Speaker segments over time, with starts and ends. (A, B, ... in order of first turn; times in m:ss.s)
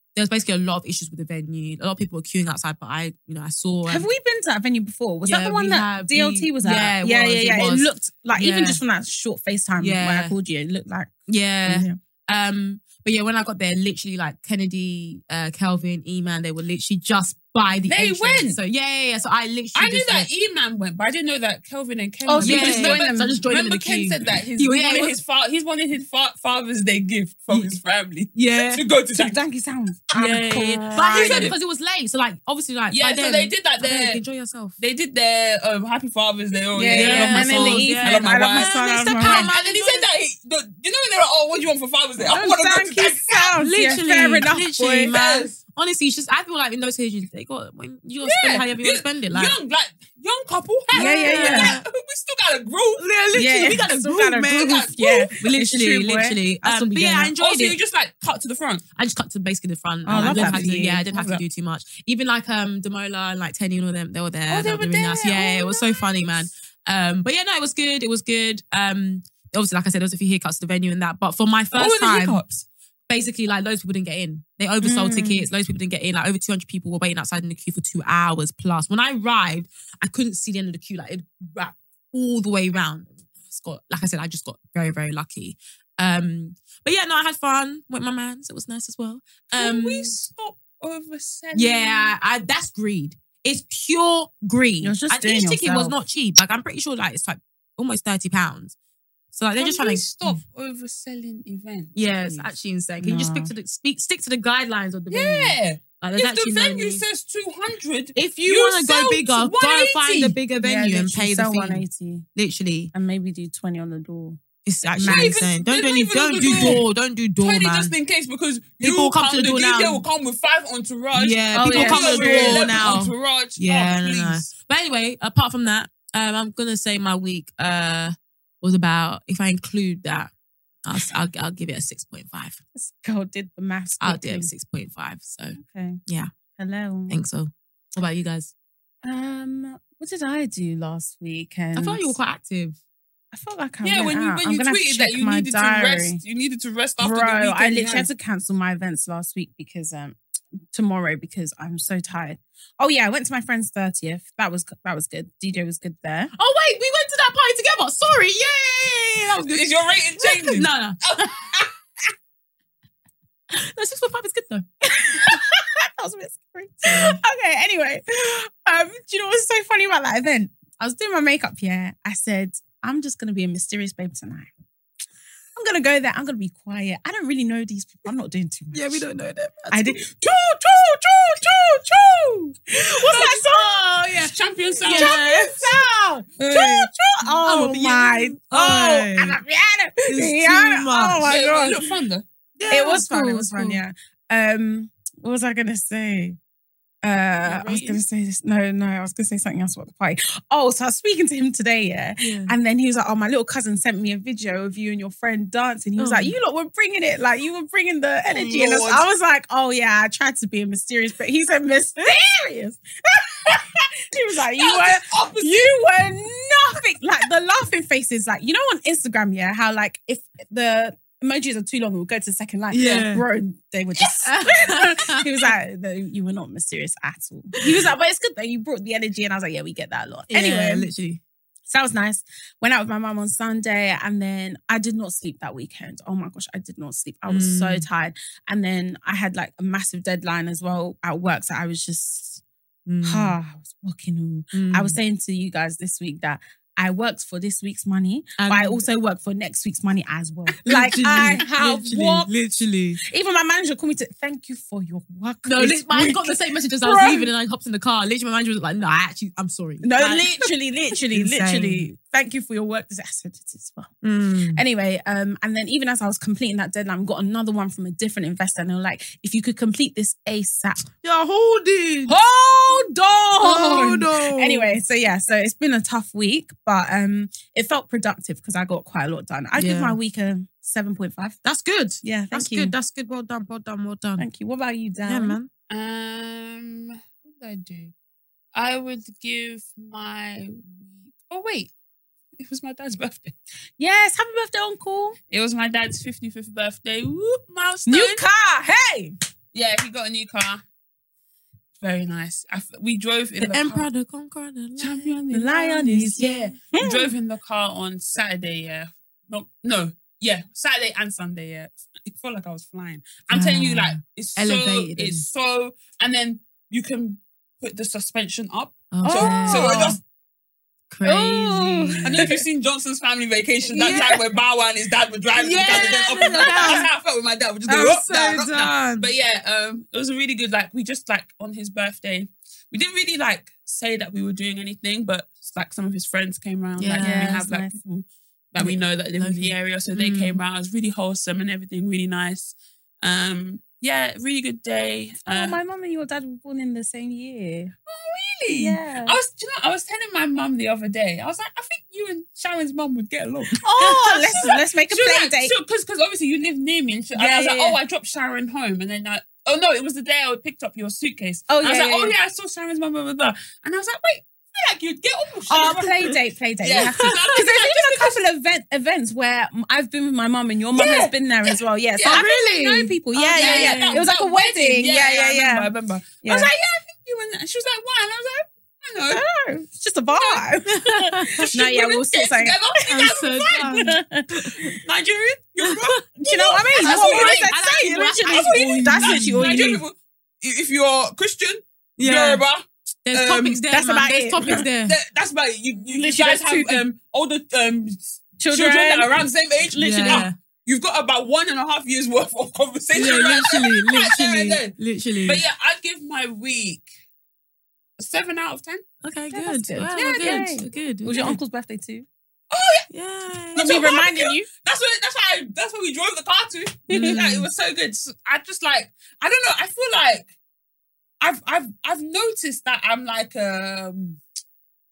0:00.1-0:04.1 A
0:03.9-0:11.1 B
0:05.2-0:08.8 A
0:09.8-0:10.3 A
0:11.3-0:20.3 A
0:11.6-0:12.0 B
0:17.9-0:18.6 C
0:19.8-0:29.4 C
0:22.2-0:23.2 B
0:22.4-0:25.2 A
0:27.5-0:27.8 A
0:28.3-0:28.8 A
0:29.2-0:31.6 B
0:30.1-0:34.8 A
0:30.8-0:31.6 C
0:32.9-0:34.2 C
0:34.8-0:43.6 C
0:36.7-0:39.5 B
0:36.9-0:40.1 A
0:42.2-0:45.1 B
0:43.6-0:49.6 A
0:45.1-0:45.5 C
0:48.2-0:53.0 C
0:50.9-0:51.8 A
0:50.9-0:51.8 B
0:53.0-0:57.8 A
0:53.3-0:57.3 B
0:57.4-0:58.8 C
0:59.0-1:12.4 A
1:00.0-1:01.0 B
1:00.1-1:01.4 C
1:04.5-1:06.1 C
1:11.7-1:12.6 C
1:13.1-1:30.1 A
1:14.8-1:15.4 B
1:29.6-1:32.1 C
1:31.6-1:38.8 A
1:34.8-1:36.0 B
1:39.3-1:40.4 A
1:39.6-1:42.5 C
1:41.9-1:47.0 A
1:43.0-1:43.5 B
1:45.1-1:50.4 C
1:48.1-1:51.8 A
1:50.6-1:52.3 B
1:52.4-1:52.9 A
1:52.9-1:54.4 B
1:54.6-1:57.9 A
1:55.0-1:55.4 B
1:55.0-1:56.8 C
1:56.4-1:56.8 B
1:57.4-2:04.5 C
1:58.8-2:00.0 A
2:01.1-2:10.3 A
2:01.5-2:03.0 B
2:10.9-2:12.6 A
2:12.8-2:14.5 B
2:14.0-2:16.3 A
2:15.6-2:16.0 B
2:16.6-2:17.2 B
2:17.1-2:18.5 A
2:19.0-2:22.2 B
2:21.8-2:22.8 A
2:23.3-2:26.2 B
2:23.8-2:28.1 C
2:27.0-2:30.2 B
2:30.7-2:36.3 B
2:36.4-2:41.4 A
2:39.4-2:41.6 C
2:43.5-2:44.6 A
2:44.9-2:54.5 B
2:46.8-2:47.2 A
2:55.6-2:59.0 B
2:58.7-3:00.0 A
2:59.7-3:04.0 B
3:03.1-3:06.9 A
3:04.2-3:05.8 C
3:04.8-3:05.6 B
3:06.4-3:11.8 B
3:07.4-3:09.4 A
3:10.1-3:11.3 A
3:11.2-3:12.2 C
3:12.6-3:13.8 A
3:12.7-3:16.4 B
3:17.0-3:50.9 B
3:17.4-3:18.0 C
3:22.2-3:22.5 A
3:26.0-3:26.4 A
3:28.3-3:29.1 C
3:34.6-3:35.8 C
3:42.7-3:43.2 A
3:44.0-3:45.5 A
3:50.3-3:51.2 A
3:51.7-4:02.4 B
3:57.3-3:57.8 A
4:02.9-4:03.4 A
4:03.0-4:12.3 B
4:04.5-4:05.0 A
4:08.4-4:08.8 A
4:10.6-4:13.0 A
4:13.0-4:17.3 B
4:15.4-4:20.5 A
4:19.8-4:23.9 B
4:21.1-4:21.9 A
4:24.0-4:24.6 A
4:24.5-4:30.8 B
4:31.0-4:32.2 A
4:32.1-4:41.4 B
4:33.4-4:34.8 A
4:39.6-4:40.0 A
4:41.4-4:44.3 A
4:42.0-4:42.8 B
4:44.2-4:45.4 B
4:45.1-4:45.5 A
4:45.7-4:47.9 C
4:48.6-4:51.7 C
4:52.4-4:53.3 C
4:53.8-4:55.2 B
4:55.3-4:58.2 C
4:57.9-4:59.1 B
4:59.5-5:00.6 C
5:01.8-5:03.9 C
5:03.4-5:05.2 A
5:04.8-5:20.0 C
5:05.3-5:07.1 B
5:06.2-5:06.5 A
5:13.3-5:15.2 A
5:18.9-5:20.0 A
5:19.0-5:20.0 B
5:20.9-5:22.3 A
5:21.0-5:22.4 B
5:22.0-5:45.6 C
5:23.7-5:24.2 B
5:23.8-5:24.2 A
5:25.4-5:26.9 A
5:25.7-5:26.9 B
5:27.7-5:29.1 A
5:36.8-5:37.4 A
5:37.0-5:37.8 B
5:38.6-5:40.4 A
5:45.2-5:47.7 B
5:47.9-6:05.9 C
5:48.5-5:49.2 B
5:53.6-5:55.5 B
5:57.2-5:57.8 B
6:01.5-6:02.1 B
6:05.5-6:15.7 B
6:06.6-6:08.2 C
6:06.8-6:07.2 A
6:10.7-6:11.1 C
6:11.9-6:19.2 C
6:12.0-6:14.1 A
6:16.2-6:16.5 B
6:19.1-6:23.1 B
6:20.1-6:20.4 C
6:20.7-6:21.5 A
6:21.4-6:23.7 C
6:22.9-6:24.7 A
6:23.6-6:24.7 B
6:24.8-6:27.5 C
6:26.2-6:29.8 B
6:26.8-6:29.6 A
6:28.2-6:33.6 C
6:32.0-6:32.4 A
6:33.1-6:35.0 A
6:33.7-6:34.6 B
6:34.8-6:44.8 C
6:35.9-6:36.8 B
6:38.4-6:40.3 B
6:39.7-6:40.4 A
6:42.9-6:45.4 A
6:45.2-6:46.9 C
6:48.0-6:48.8 C
6:49.0-6:51.4 A
6:49.3-6:52.1 B
6:49.9-6:50.4 C
6:52.5-6:52.8 C
6:52.9-6:53.8 A
6:53.6-6:54.5 B
6:53.6-7:00.3 C
6:56.9-6:57.2 B
6:56.9-6:57.5 A
7:01.2-7:04.2 C